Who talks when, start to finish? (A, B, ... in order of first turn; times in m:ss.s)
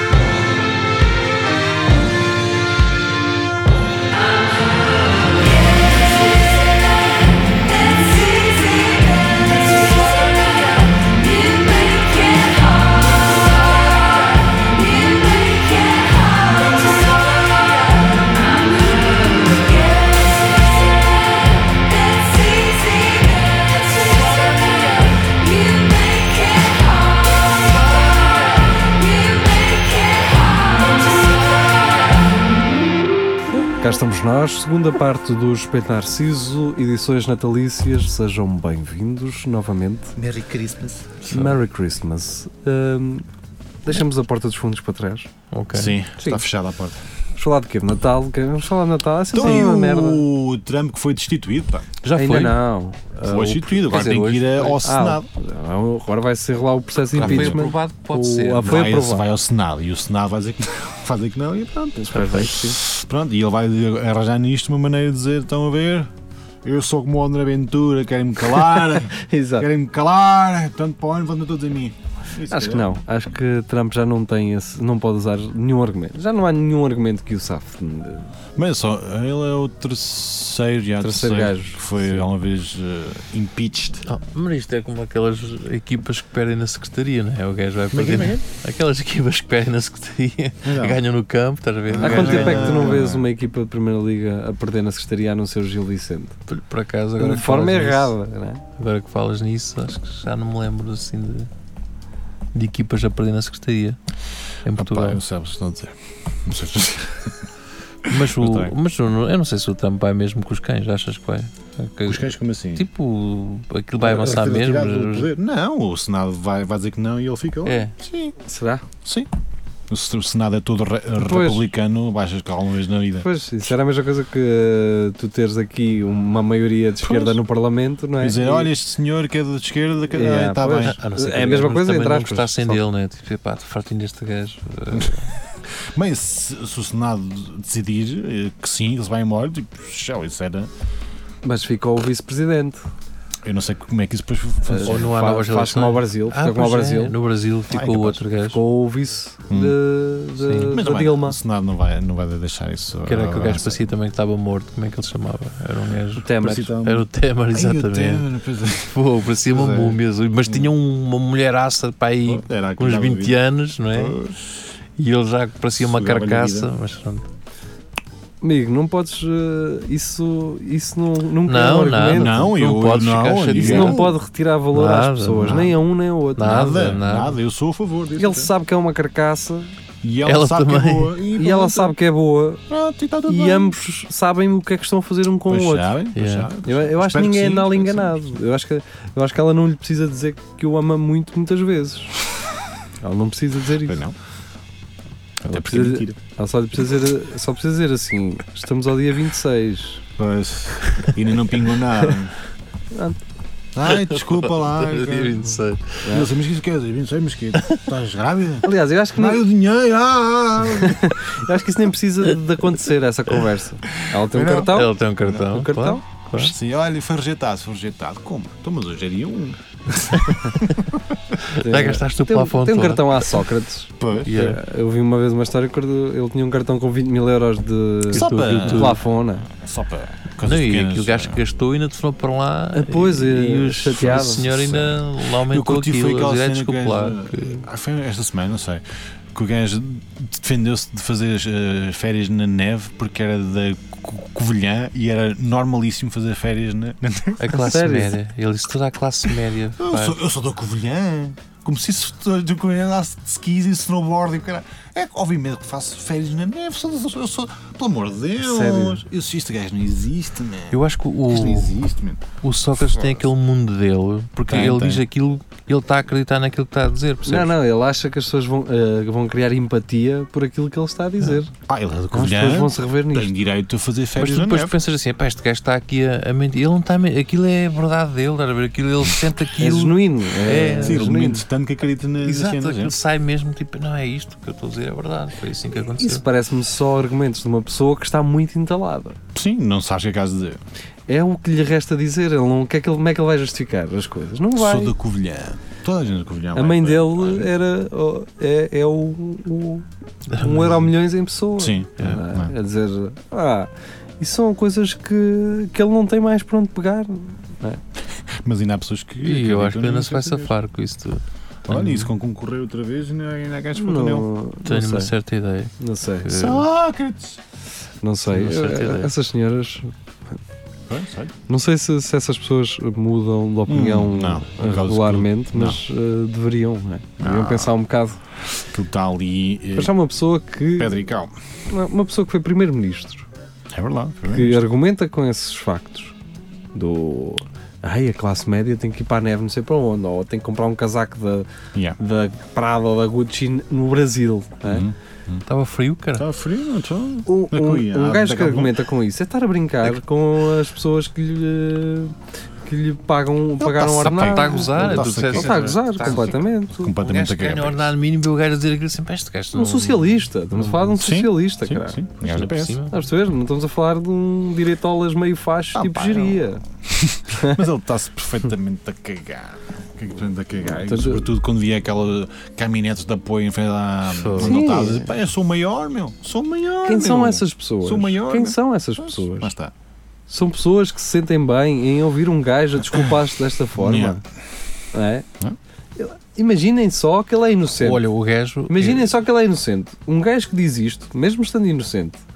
0:04.4-0:32.6 A
0:33.8-0:40.2 B
0:40.2-0:41.5 C
0:41.3-0:43.2 B
0:43.8-0:45.3 B
0:45.5-0:46.0 D
0:45.7-0:47.0 C
0:47.4-0:50.2 B
0:49.3-0:52.6 C
0:52.1-0:54.3 B
0:52.1-0:52.5 D
0:53.2-0:55.2 C
0:53.9-0:54.8 D
0:54.8-0:59.2 B
0:57.1-0:58.9 D
0:57.2-0:57.7 C
0:58.6-1:06.1 C
1:02.0-1:02.8 B
1:06.6-1:12.9 C
1:08.5-1:09.7 B
1:12.5-1:18.3 B
1:18.6-1:24.0 C
1:21.0-1:22.2 B
1:24.0-1:33.0 D
1:27.9-1:28.4 C
1:30.6-1:31.0 C
1:31.9-1:33.2 C
1:32.0-1:36.4 B
1:36.5-1:38.1 D
1:37.2-1:38.6 B
1:38.8-1:41.5 D
1:42.5-1:44.0 D
1:44.6-1:45.2 D
1:44.8-1:47.4 C
1:48.1-1:48.7 C
1:48.1-1:55.3 D
1:52.0-1:52.8 C
1:54.0-1:58.4 C
1:57.6-1:57.9 D
1:58.5-1:58.8 B
1:59.0-1:59.3 C
1:59.9-2:03.7 C
2:01.2-2:01.7 B
2:03.2-2:08.7 B
2:07.0-2:07.4 C
2:08.2-2:11.0 C
2:10.1-2:12.8 B
2:10.8-2:15.3 D
2:14.9-2:15.2 C
2:15.9-2:20.7 C
2:21.4-2:22.8 B
2:23.4-2:25.1 C
2:24.6-2:27.2 B
2:24.8-2:28.6 D
2:27.7-2:28.2 C
2:28.5-2:31.4 B
2:29.5-2:29.8 C
2:30.4-2:30.8 D
2:30.7-2:33.8 C
2:33.0-2:44.2 D
2:36.2-2:36.7 B
2:36.3-2:39.0 C
2:39.5-2:40.7 C
2:42.2-2:43.4 C
2:43.9-2:44.5 C
2:45.0-2:47.2 D
2:45.8-2:46.7 C
2:48.4-2:52.5 B
2:51.4-2:54.1 D
2:52.1-2:54.1 C
2:53.5-2:56.6 B
2:54.7-2:55.8 D
2:56.4-2:57.4 D
2:56.4-2:58.5 C
2:58.2-2:59.7 B
3:00.0-3:01.9 C
3:00.2-3:01.2 D
3:01.4-3:02.6 B
3:02.7-3:03.7 C
3:03.2-3:05.9 B
3:05.5-3:08.4 C
3:06.1-3:06.5 D
3:06.6-3:12.1 B
3:13.0-3:14.0 B
3:13.8-3:14.1 C
3:15.4-3:16.2 C
3:15.5-3:20.0 B
3:20.2-3:22.3 C
3:22.9-3:23.2 B
3:23.7-3:25.5 C
3:23.8-3:26.0 D
3:26.0-3:26.3 B
3:26.1-3:31.2 C
3:28.6-3:29.4 B
3:30.7-3:36.0 B
3:34.0-3:34.7 C
3:34.6-3:36.5 D
3:36.4-3:41.0 C
3:41.5-3:43.4 D
3:41.6-3:49.5 B
3:44.0-3:44.4 C
3:44.2-3:44.6 D
3:48.1-3:49.0 D
3:48.1-3:51.4 C
3:50.4-3:57.6 D
3:52.7-3:54.5 B
3:53.9-4:07.8 C
4:07.4-4:10.2 D
4:07.5-4:08.2 B
4:09.8-4:22.2 C
4:18.4-4:19.0 B
4:20.7-4:21.7 D
4:22.4-4:27.5 D
4:22.9-4:23.2 C
4:24.5-4:25.0 C
4:27.2-4:31.5 B
4:31.7-4:34.7 C
4:32.1-4:33.3 B
4:34.2-4:41.1 D
4:39.6-4:41.4 B
4:40.7-4:42.9 C
4:42.2-4:46.2 D
4:46.0-4:49.2 B
4:49.3-4:50.6 C
4:51.1-4:54.9 B
4:54.6-4:57.5 C
4:56.5-4:59.8 B
5:00.3-5:00.9 D
5:00.4-5:07.8 B
5:01.6-5:02.5 C
5:08.4-5:10.5 C
5:09.2-5:12.1 D
5:11.7-5:14.3 C
5:13.8-5:15.1 B
5:14.6-5:16.7 D
5:15.8-5:16.3 B
5:16.3-5:17.4 C
5:18.0-5:19.9 B
5:18.3-5:19.1 D
5:20.9-5:21.3 C
5:21.5-5:28.2 B
5:23.7-5:25.8 C
5:27.2-5:27.7 C
5:28.7-5:29.9 C
5:29.7-5:31.0 B
5:30.8-5:31.3 C
5:31.7-5:33.3 B
5:33.7-5:34.6 C
5:34.3-5:36.1 B
5:36.7-5:41.5 B
5:42.0-5:44.8 B
5:44.6-5:45.4 C
5:45.5-5:46.2 D
5:46.2-5:48.7 C
5:47.3-5:52.1 B
5:52.6-5:56.9 B
5:53.6-5:57.9 C
5:54.0-5:56.5 D
5:57.0-6:00.8 D
5:59.5-6:02.0 B
6:01.0-6:02.8 C
6:02.2-6:03.0 D
6:02.9-6:06.6 B
6:05.7-6:19.7 C
6:07.4-6:07.6 B
6:10.6-6:11.3 B
6:14.0-6:14.7 D
6:14.4-6:15.1 B
6:16.8-6:19.5 B
6:20.3-6:24.2 B
6:23.8-6:24.2 C
6:24.9-6:25.2 B
6:26.0-6:28.0 B
6:27.8-6:29.1 D
6:28.7-6:32.2 B